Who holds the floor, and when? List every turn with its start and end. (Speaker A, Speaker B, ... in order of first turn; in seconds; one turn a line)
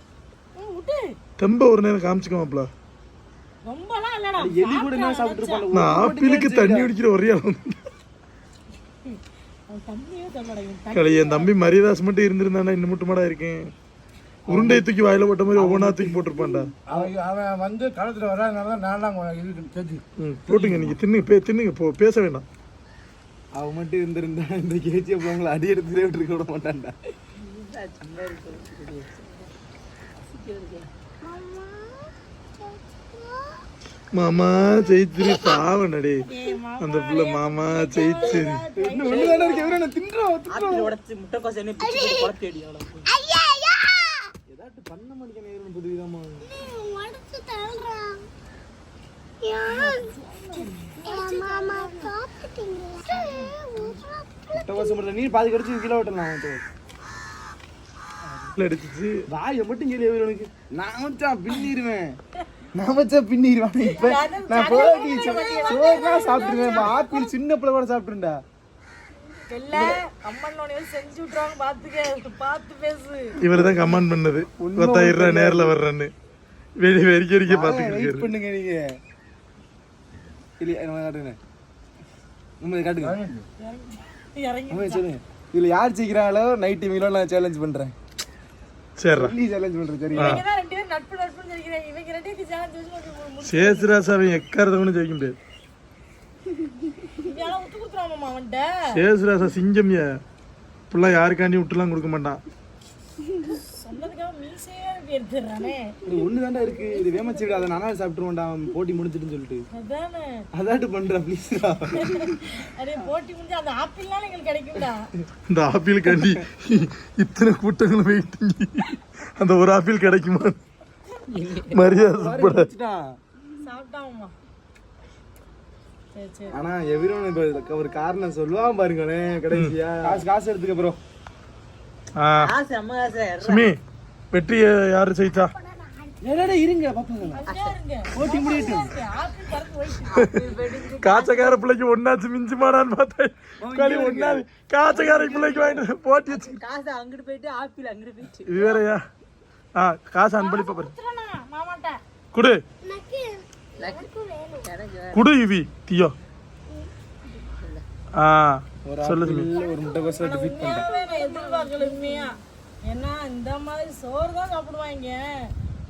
Speaker A: 0.6-1.1
Speaker B: 1.4-2.7
Speaker A: 3.6-5.6
Speaker C: 4.4-6.9
Speaker B: 5.7-7.8
Speaker A: 9.0-11.5
Speaker B: 10.9-13.7
Speaker C: 14.5-14.8
Speaker B: 14.5-16.7
Speaker C: 15.5-16.3
Speaker C: 16.9-17.2
Speaker D: 16.9-20.0
Speaker B: 20.2-22.4
Speaker C: 20.5-20.9
Speaker C: 23.5-26.9
Speaker E: 27.4-29.5
Speaker E: 30.2-30.9
Speaker F: 31.2-33.6
Speaker B: 34.1-36.2
Speaker A: 36.2-39.8
Speaker B: 36.8-38.6
Speaker C: 38.8-40.9
Speaker E: 39.0-39.5
Speaker E: 40.5-43.1
Speaker F: 41.8-42.3
Speaker F: 43.0-44.3
Speaker C: 44.5-46.5
Speaker F: 46.4-48.3
Speaker F: 49.4-50.1
Speaker A: 49.7-52.1
Speaker F: 51.0-55.0
Speaker A: 53.1-54.0
Speaker C: 54.5-56.6
Speaker B: 58.5-59.2
Speaker C: 59.3-62.2
Speaker C: 62.7-68.4
Speaker A: 63.9-67.3
Speaker F: 65.0-66.7
Speaker A: 69.5-73.3
Speaker B: 73.4-76.1
Speaker C: 73.5-74.0
Speaker C: 74.6-75.8
Speaker B: 76.8-78.3
Speaker C: 77.5-79.0
Speaker C: 80.6-81.4
Speaker C: 82.6-83.2
Speaker A: 83.6-85.0
Speaker C: 84.7-87.9
Speaker B: 89.0-89.3
Speaker C: 89.1-90.4
Speaker A: 90.1-93.9
Speaker B: 90.2-90.4
Speaker B: 93.4-95.3
Speaker A: 97.1-98.7
Speaker B: 98.9-100.1
Speaker B: 100.9-102.4
Speaker A: 103.5-106.0
Speaker C: 106.0-109.6
Speaker F: 106.7-107.5
Speaker A: 107.0-107.3
Speaker A: 109.7-110.3
Speaker C: 110.5-112.3
Speaker A: 111.9-115.1
Speaker B: 115.5-120.6
Speaker E: 121.3-121.8
Speaker B: 121.7-122.7
Speaker C: 121.8-123.0
Speaker A: 123.6-124.3
Speaker A: 126.1-126.5
Speaker C: 126.5-131.0
Speaker B: 132.2-132.5
Speaker E: 132.4-133.7
Speaker B: 133.4-133.8
Speaker B: 134.3-135.5
Speaker F: 135.5-136.5
Speaker C: 136.2-137.4
Speaker A: 137.3-140.3
Speaker E: 137.4-137.8
Speaker C: 138.1-138.9
Speaker E: 140.1-141.4
Speaker B: 141.0-146.6
Speaker E: 143.7-143.9
Speaker C: 143.7-144.4
Speaker E: 144.9-148.6
Speaker B: 148.4-149.0
Speaker B: 149.8-150.9
Speaker A: 150.4-152.0
Speaker B: 152.3-152.6
Speaker F: 152.8-154.7
Speaker E: 153.8-155.3
Speaker B: 155.1-156.1
Speaker E: 157.4-157.8
Speaker B: 158.1-159.5
Speaker C: 158.8-160.9
Speaker F: 159.5-162.4
Speaker A: 160.2-165.5